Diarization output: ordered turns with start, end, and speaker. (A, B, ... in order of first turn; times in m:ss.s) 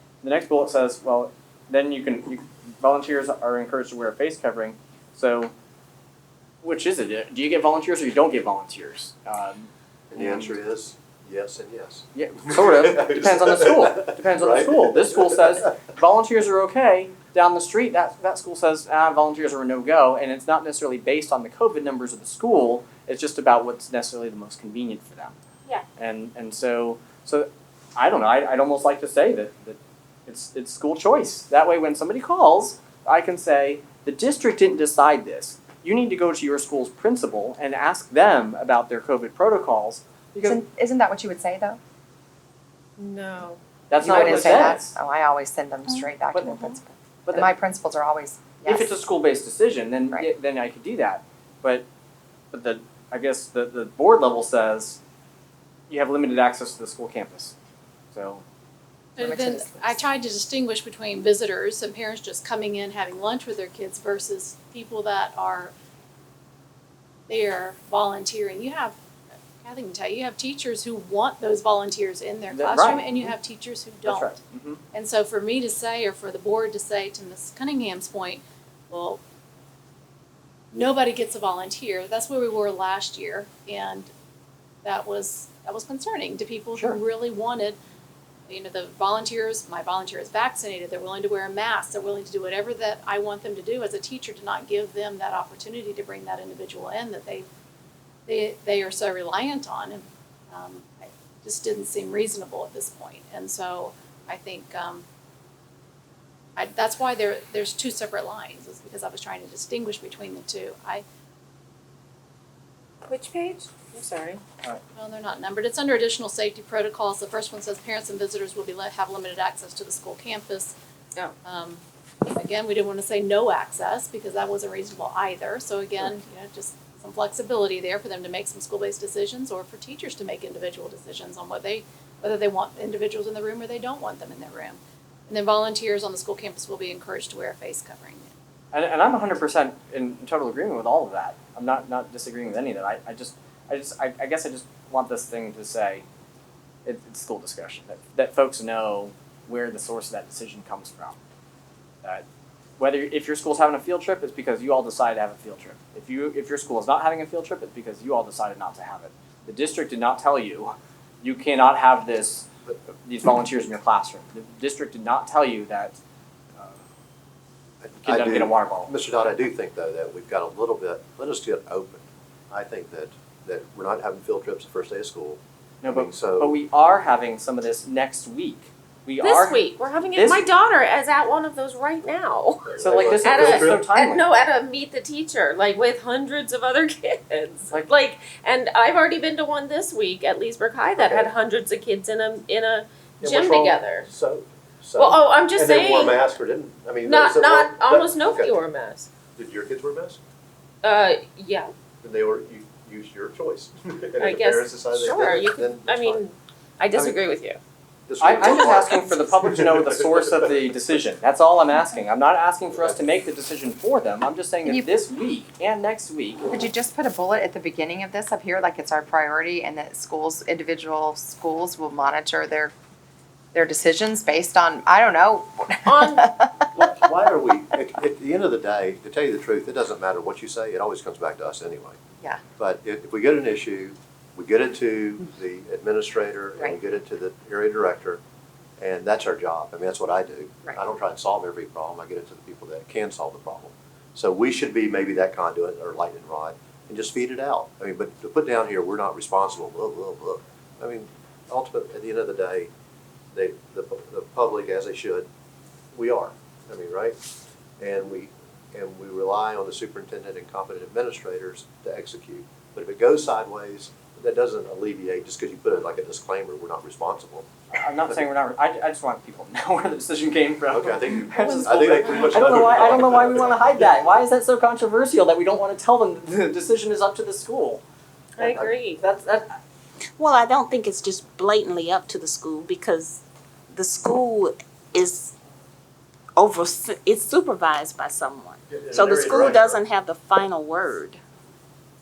0:00.2-0:05.5 A
0:06.6-0:10.6 A
0:10.1-0:15.7 B
0:12.2-0:25.4 A
0:26.0-0:40.6 A
0:40.4-0:41.8 C
0:43.0-0:44.6 D
0:43.9-0:44.9 A
0:44.0-0:48.9 C
0:46.3-0:46.7 A
0:47.2-0:47.5 A
0:48.7-0:51.9 A
0:52.5-0:55.0 A
0:55.9-0:57.6 A
0:58.1-0:58.4 A
0:59.2-1:05.7 E
0:59.2-1:00.0 C
1:07.3-1:09.0 E
1:09.6-1:14.4 E
1:12.5-1:13.3 A
1:14.0-1:14.8 A
1:14.9-1:19.2 E
1:20.7-1:24.1 E
1:24.8-1:27.8 E
1:28.5-1:37.5 E
1:38.3-1:45.0 E
1:46.6-1:51.0 E
1:53.0-1:54.4 D
1:54.9-2:00.8 E
2:01.4-2:18.3 E
2:18.7-2:26.0 A
2:26.8-2:31.2 A
2:32.8-2:46.0 A
2:47.8-2:56.6 B
2:48.0-2:48.9 A
2:55.8-2:59.6 A
2:59.2-3:14.1 D
3:00.2-3:00.4 A
3:02.6-3:03.9 B
3:02.8-3:04.2 A
3:11.0-3:11.3 B
3:13.2-3:18.6 B
3:15.0-3:16.3 D
3:17.0-3:19.1 D
3:19.4-3:20.2 B
3:20.8-3:21.7 D
3:22.0-3:26.2 B
3:24.2-3:27.6 D
3:28.1-3:30.2 B
3:28.2-3:36.4 A
3:28.4-3:29.0 D
3:34.6-3:34.9 C
3:36.5-3:42.7 C
3:43.5-3:46.7 C
3:45.9-3:46.3 D
3:46.7-3:52.0 B
3:52.6-3:58.2 B
3:58.8-4:12.7 B
4:13.3-4:15.3 B
4:15.9-4:17.2 B
4:17.8-4:27.5 B
4:27.7-4:37.8 A
4:30.7-4:33.9 B
4:38.4-4:39.0 D
4:38.4-4:38.7 B
4:38.5-4:39.6 A
4:40.2-4:45.3 F
4:46.4-4:51.2 F
4:48.7-4:49.8 B